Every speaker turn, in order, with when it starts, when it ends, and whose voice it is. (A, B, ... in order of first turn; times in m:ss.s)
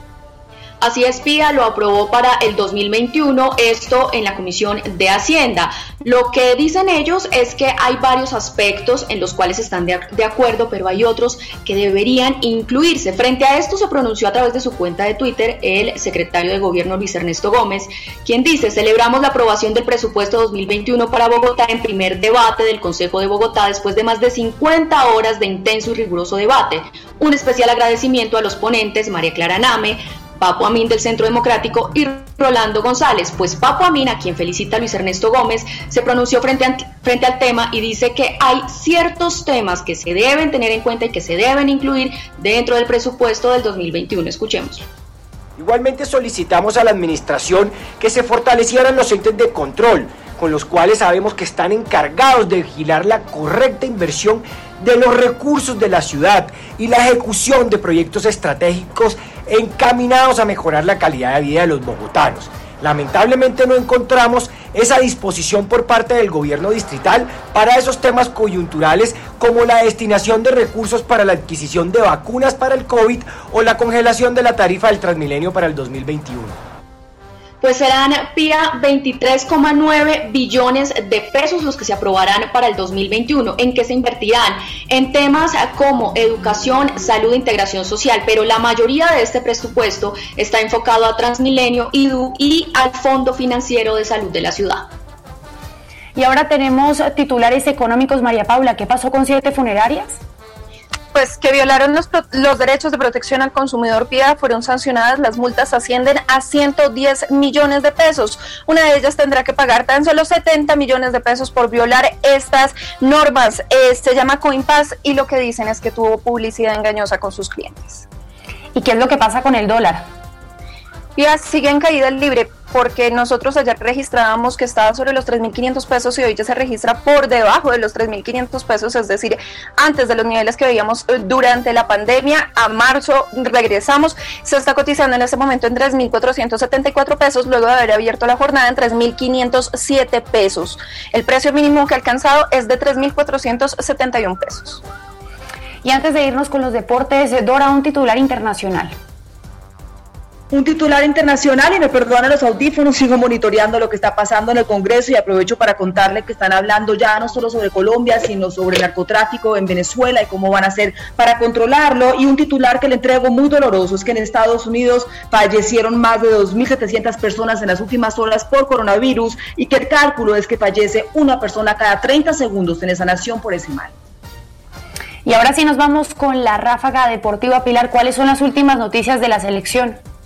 0:00.8-0:44.9 A
0:45.6-1:16.5 B
1:17.6-1:34.9 A
1:36.1-1:40.2 C
1:41.1-1:58.0 D
1:58.7-2:00.1 C
2:01.2-2:24.8 D
2:25.8-2:28.9 C
2:30.5-2:53.9 E
2:55.2-3:00.0 C